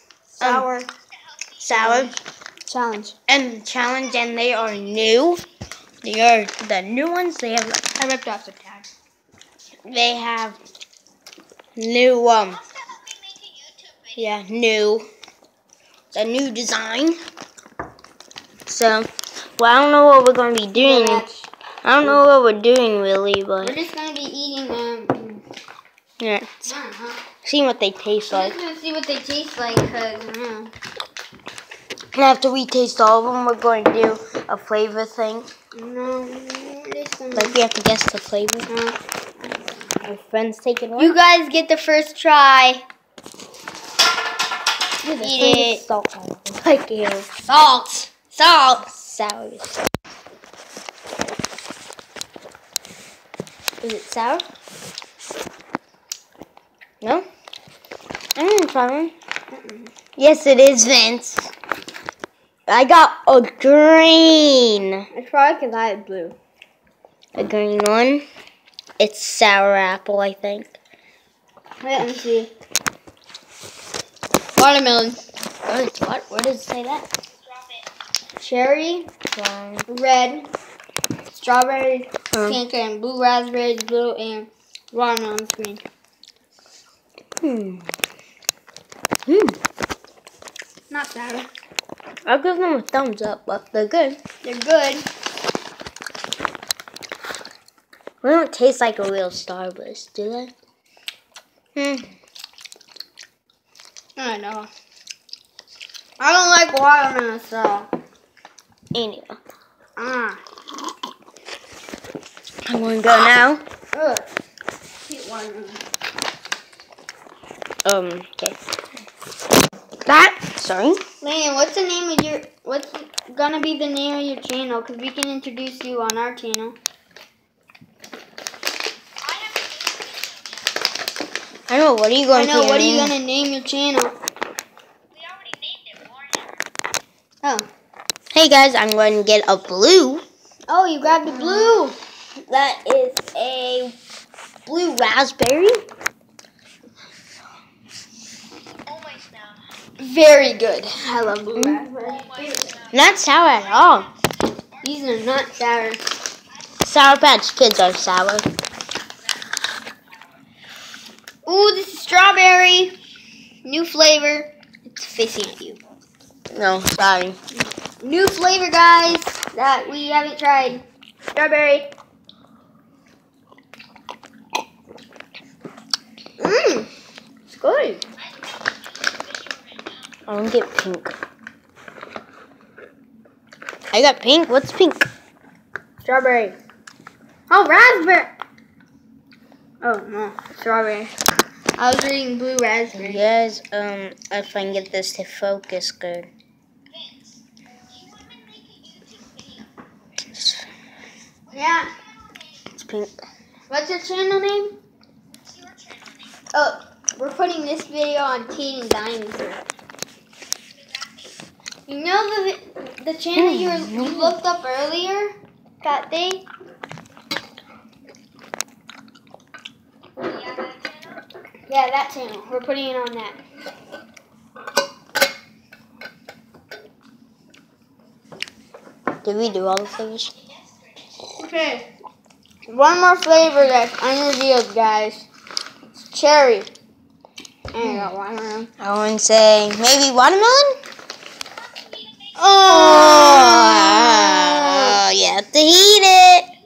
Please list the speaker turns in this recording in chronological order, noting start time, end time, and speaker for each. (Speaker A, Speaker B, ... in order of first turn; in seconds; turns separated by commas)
Speaker A: 0.3-0.9, Speaker B: 0.4-0.7, Speaker B: 1.6-2.1, Speaker A: 1.7-2.1, Speaker A: 2.7-3.1, Speaker B: 3.3-5.4, Speaker B: 6.0-7.9, Speaker A: 8.0-8.9, Speaker B: 9.8-10.6, Speaker B: 11.8-12.6, Speaker B: 14.1-15.1, Speaker B: 16.1-17.2, Speaker B: 18.7-21.2, Speaker A: 20.8-21.5, Speaker B: 21.8-23.8, Speaker A: 23.6-25.4, Speaker B: 26.2-26.7, Speaker A: 26.7-27.2, Speaker B: 27.4-28.5, Speaker A: 28.3-30.7, Speaker B: 32.1-35.5, Speaker A: 35.7-37.6, Speaker B: 37.3-38.7, Speaker A: 38.7-39.0, Speaker B: 40.0-41.1, Speaker A: 41.0-42.8, Speaker B: 45.0-47.3, Speaker A: 45.2-45.8, Speaker A: 47.4-48.8, Speaker B: 48.8-49.8, Speaker B: 53.8-54.4, Speaker B: 57.0-57.2, Speaker B: 58.4-59.1, Speaker A: 59.5-59.9, Speaker B: 60.2-61.5, Speaker B: 62.7-65.0, Speaker A: 65.1-66.3, Speaker B: 67.3-68.2, Speaker B: 69.0-70.7, Speaker A: 71.8-72.5, Speaker A: 74.5-75.2, Speaker B: 75.7-77.1, Speaker A: 78.4-79.1, Speaker B: 79.3-79.8, Speaker A: 79.9-80.5, Speaker A: 81.3-85.8, Speaker B: 82.3-82.6, Speaker B: 87.4-87.9, Speaker B: 89.2-89.6, Speaker A: 90.9-91.5, Speaker B: 92.2-94.2, Speaker A: 94.4-95.1, Speaker B: 98.2-100.5, Speaker B: 101.8-102.1, Speaker A: 104.2-104.7, Speaker A: 106.2-107.9, Speaker B: 108.9-109.4, Speaker A: 110.0-110.4, Speaker B: 112.6-113.6, Speaker A: 113.9-114.3, Speaker A: 115.0-115.8, Speaker B: 117.8-118.6, Speaker B: 120.0-121.0, Speaker A: 121.2-126.8, Speaker B: 131.7-133.1, Speaker A: 132.3-134.1, Speaker B: 138.3-140.2, Speaker A: 140.7-142.0, Speaker B: 142.4-143.9, Speaker B: 144.7-145.8, Speaker A: 150.0-152.8, Speaker B: 152.9-154.1, Speaker A: 154.8-156.0, Speaker B: 156.8-158.5, Speaker A: 161.4-163.0, Speaker A: 163.6-165.8, Speaker B: 166.5-167.4, Speaker A: 168.0-170.8, Speaker A: 171.3-171.9, Speaker A: 176.4-176.9, Speaker A: 177.5-178.0, Speaker B: 180.3-181.1, Speaker B: 183.9-185.1, Speaker A: 186.0-186.6, Speaker A: 187.5-188.3, Speaker A: 189.8-191.1, Speaker A: 191.8-193.3, Speaker B: 192.9-196.3, Speaker B: 200.3-200.6, Speaker A: 201.5-201.9, Speaker B: 202.8-203.2, Speaker A: 203.7-204.7, Speaker A: 206.5-209.6, Speaker A: 211.9-216.5, Speaker B: 213.4-214.3, Speaker A: 221.7-223.4, Speaker B: 229.2-230.3, Speaker A: 231.4-231.8, Speaker A: 232.7-235.2, Speaker A: 236.1-236.7, Speaker A: 237.7-238.7, Speaker B: 237.8-238.1, Speaker B: 238.8-240.7, Speaker B: 242.3-246.5, Speaker A: 244.3-245.0